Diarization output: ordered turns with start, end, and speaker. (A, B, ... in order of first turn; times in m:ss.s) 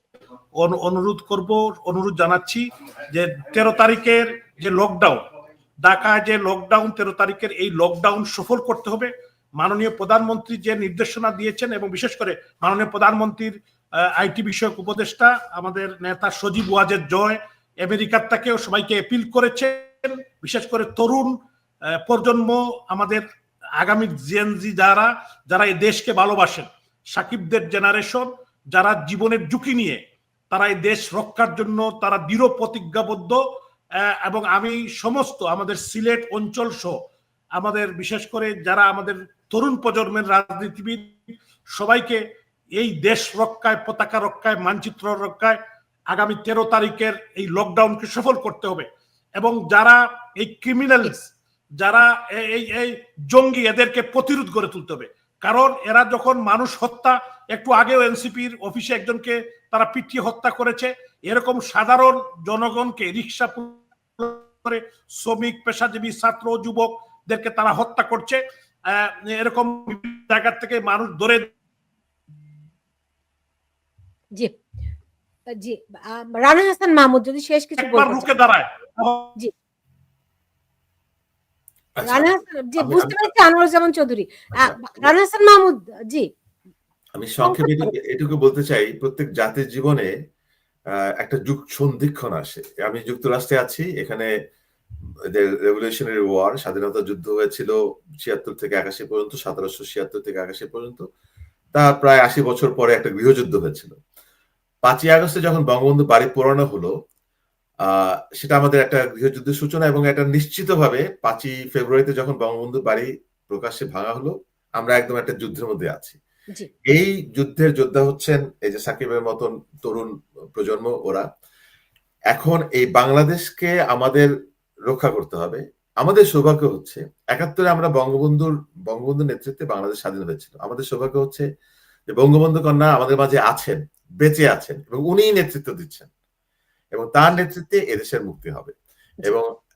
0:00.6-0:05.2 A
0:05.8-0:21.3 A
0:22.0-0:23.2 A
0:23.8-0:33.4 A
0:34.2-0:36.9 A
0:37.6-0:41.2 A
0:41.7-0:42.2 A
0:42.8-0:45.6 A
0:46.1-0:48.9 A
0:49.4-0:51.3 A
0:51.8-1:11.5 A
1:15.6-1:18.3 B
1:17.8-1:19.3 A
1:22.0-1:22.3 C
1:22.0-1:26.3 B
1:22.8-1:23.2 C
1:27.2-1:30.1 C
1:27.4-1:27.9 B
1:31.2-1:34.3 C
1:35.3-1:41.0 C
1:41.7-1:44.0 C
1:44.8-1:46.9 C
1:47.9-1:56.2 C
1:56.9-2:01.2 C
2:02.3-2:04.3 C
2:04.9-2:11.4 C
2:12.1-2:16.1 C
2:16.9-2:18.7 C